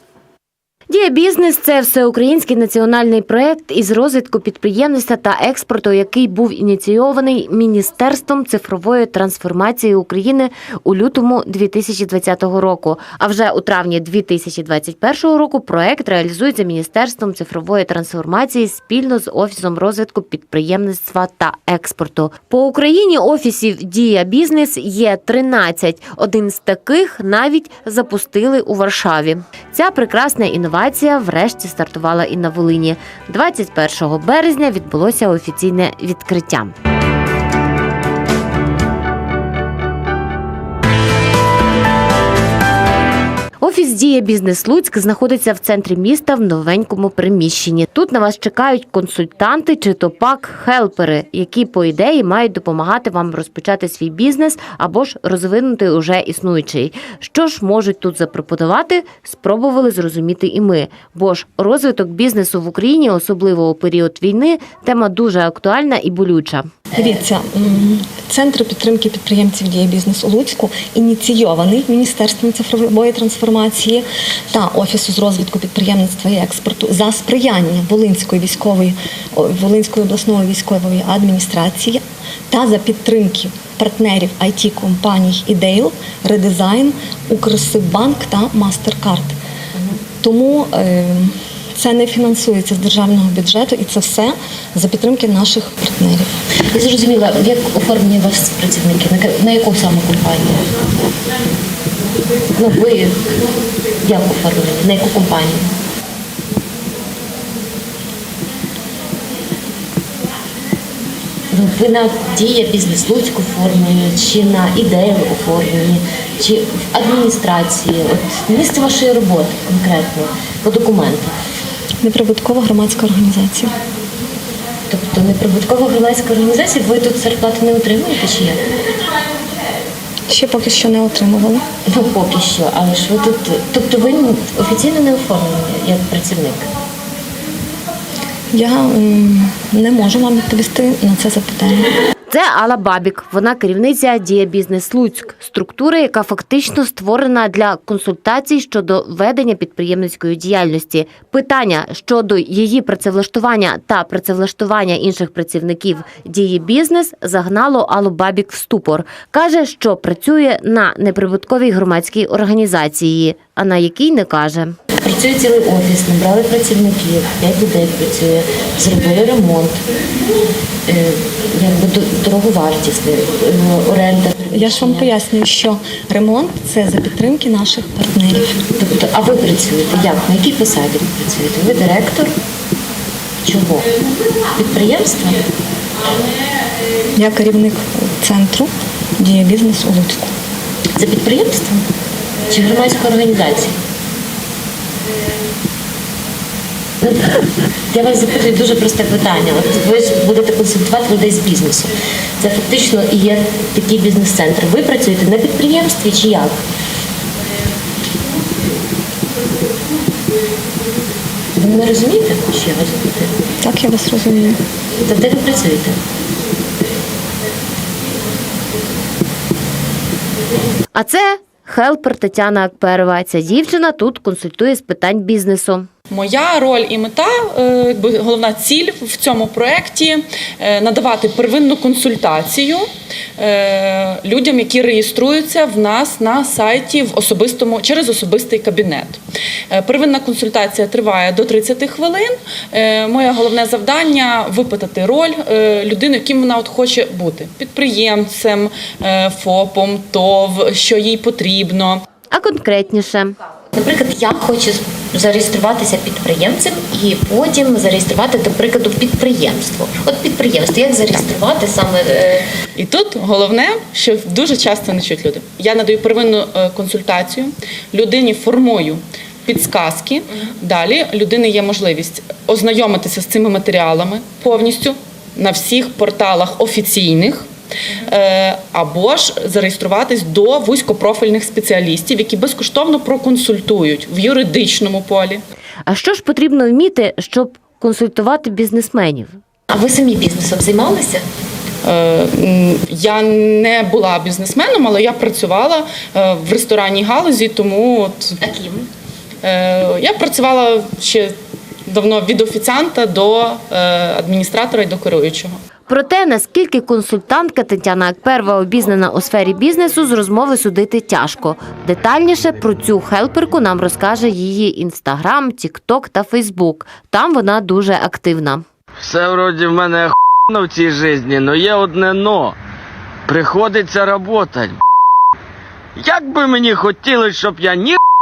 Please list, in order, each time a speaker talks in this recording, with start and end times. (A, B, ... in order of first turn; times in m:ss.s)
0:00.9-0:36.7 A
0:43.6-1:06.7 A
1:06.9-1:29.3 B
1:30.2-1:36.3 B
1:36.7-1:40.7 C
1:42.6-1:43.2 C
1:44.0-1:45.7 C
1:51.5-2:01.3 C
2:02.0-2:03.7 B
2:04.9-2:08.6 C
2:10.3-2:11.6 B
2:11.8-2:16.7 C
2:18.5-2:21.9 B
2:22.3-2:44.7 A
2:45.0-2:49.8 C
2:50.8-2:55.1 C
2:54.5-2:58.6 B
2:58.8-3:02.3 C
3:03.4-3:03.9 C
3:04.6-3:05.4 C
3:07.1-3:10.3 B
3:11.0-3:11.8 C
3:12.5-3:13.7 C
3:17.0-3:26.6 C
3:31.5-3:33.3 C
3:33.6-3:34.6 B
3:35.0-3:36.0 C
3:40.9-3:45.9 A
3:46.1-4:12.0 D
4:12.3-4:13.4 A
4:13.7-4:22.5 C
4:22.8-4:37.5 D
4:38.0-4:45.4 D
4:45.9-4:49.4 A
4:49.7-4:51.2 C
4:51.8-4:58.4 D
4:58.4-4:58.9 C
4:59.4-5:01.3 D
5:01.8-5:05.6 D
5:05.9-5:18.6 A
5:19.0-5:22.5 E
5:23.3-5:24.8 E
5:26.0-5:28.0 E